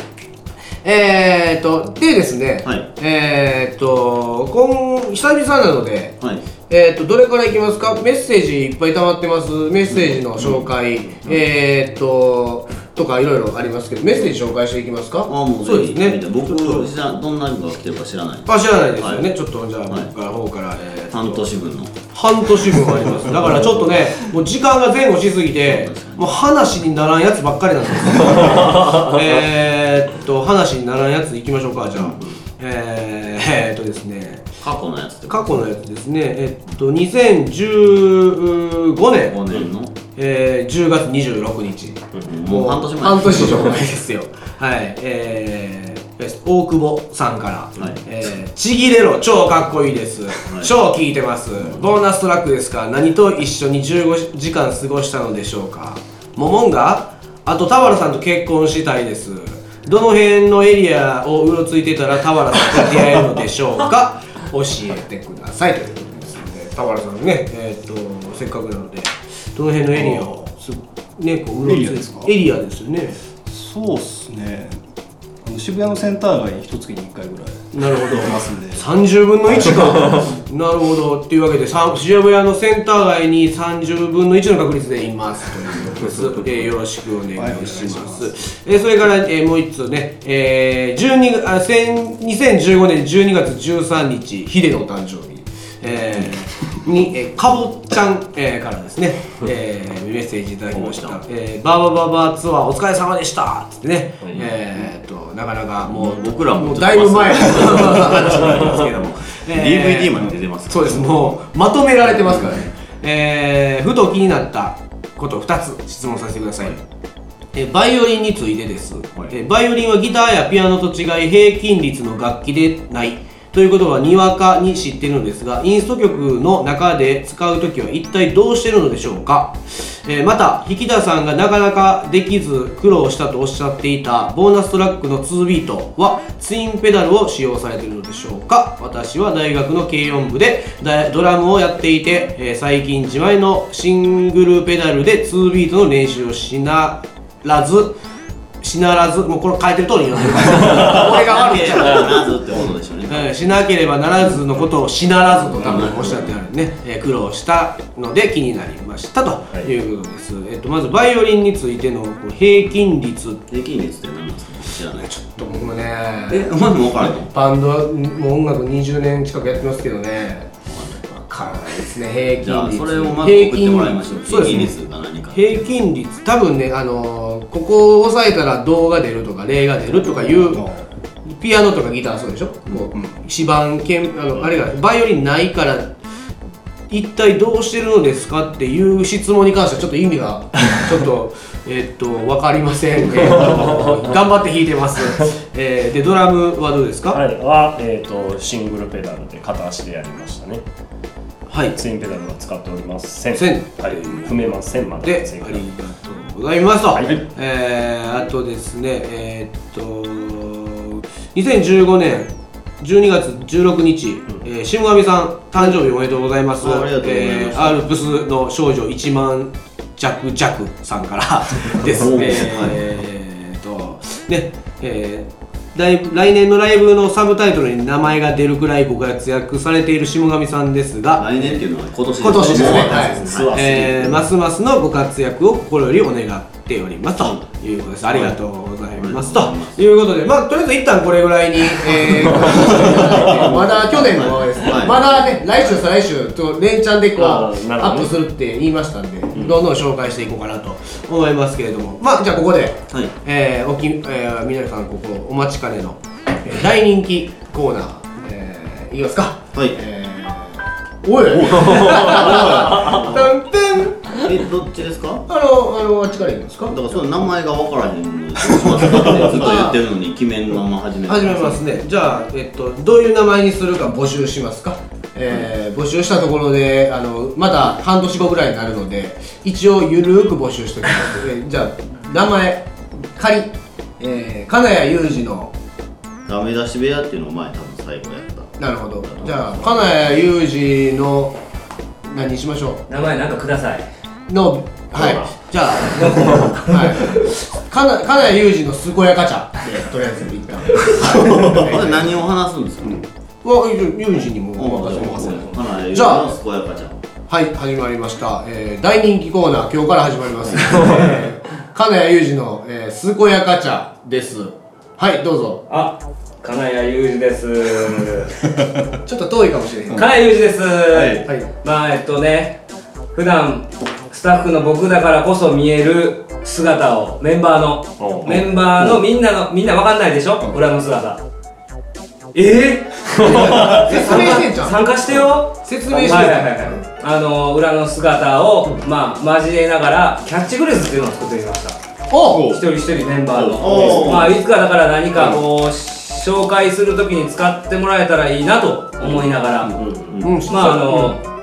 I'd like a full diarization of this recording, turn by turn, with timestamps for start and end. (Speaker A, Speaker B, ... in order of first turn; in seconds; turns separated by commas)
Speaker A: 0.8-6.2, Speaker A: 6.7-16.9, Speaker B: 9.9-10.7, Speaker B: 15.3-19.3, Speaker A: 18.4-21.5, Speaker B: 19.9-20.1, Speaker B: 21.1-22.0, Speaker A: 22.0-34.5, Speaker B: 23.4-23.8, Speaker B: 25.6-26.3, Speaker B: 31.9-32.3, Speaker B: 34.6-35.6, Speaker A: 35.3-39.4, Speaker B: 39.2-39.9, Speaker A: 40.1-73.2, Speaker B: 42.2-43.8, Speaker B: 50.4-50.7, Speaker C: 71.6-72.3, Speaker C: 73.4-74.8, Speaker C: 75.4-78.9, Speaker A: 77.7-116.8, Speaker C: 79.5-80.4, Speaker C: 87.3-88.3, Speaker B: 100.8-101.2, Speaker B: 105.8-111.4, Speaker B: 112.2-112.6, Speaker A: 117.5-148.0, Speaker A: 148.6-152.3, Speaker B: 150.8-153.5, Speaker A: 153.1-163.4, Speaker B: 155.5-156.4, Speaker B: 163.5-165.1, Speaker A: 165.0-166.5, Speaker B: 166.3-167.3, Speaker A: 167.1-170.5, Speaker B: 170.7-171.7, Speaker A: 171.3-174.8, Speaker B: 172.4-175.8, Speaker A: 175.3-180.7, Speaker C: 180.0-180.9, Speaker A: 181.2-185.9, Speaker A: 186.9-197.2, Speaker D: 197.1-200.6, Speaker A: 201.5-201.8, Speaker D: 201.8-205.6, Speaker A: 203.3-204.4, Speaker A: 205.0-231.6, Speaker D: 206.9-207.2, Speaker B: 216.6-217.9, Speaker B: 221.9-222.8, Speaker B: 231.2-234.1, Speaker A: 232.2-264.3, Speaker D: 232.2-234.2, Speaker B: 237.2-237.5, Speaker B: 238.1-238.3, Speaker B: 238.9-239.9, Speaker B: 242.4-245.6, Speaker D: 247.2-248.1, Speaker B: 264.1-265.2, Speaker A: 265.3-267.0, Speaker B: 266.7-271.6, Speaker A: 268.8-269.8, Speaker A: 271.1-285.5, Speaker B: 286.2-290.0, Speaker A: 288.6-291.4, Speaker A: 292.1-292.8, Speaker E: 292.9-293.8, Speaker A: 294.3-302.1, Speaker D: 295.0-295.3, Speaker E: 295.8-297.3, Speaker B: 301.0-303.1, Speaker A: 303.4-306.3, Speaker B: 304.6-307.0, Speaker A: 307.3-315.6, Speaker E: 315.7-318.3, Speaker A: 319.1-320.1, Speaker E: 319.9-322.6, Speaker C: 320.9-321.2, Speaker A: 321.2-321.5, Speaker E: 323.1-331.2, Speaker D: 328.0-329.0, Speaker E: 332.3-341.8, Speaker D: 333.2-334.2, Speaker A: 333.2-334.8, Speaker A: 335.6-336.9, Speaker A: 342.1-342.4, Speaker C: 342.3-342.6, Speaker E: 342.4-349.8, Speaker B: 343.3-344.4, Speaker D: 349.7-350.2, Speaker A: 350.2-351.1, Speaker E: 350.5-351.2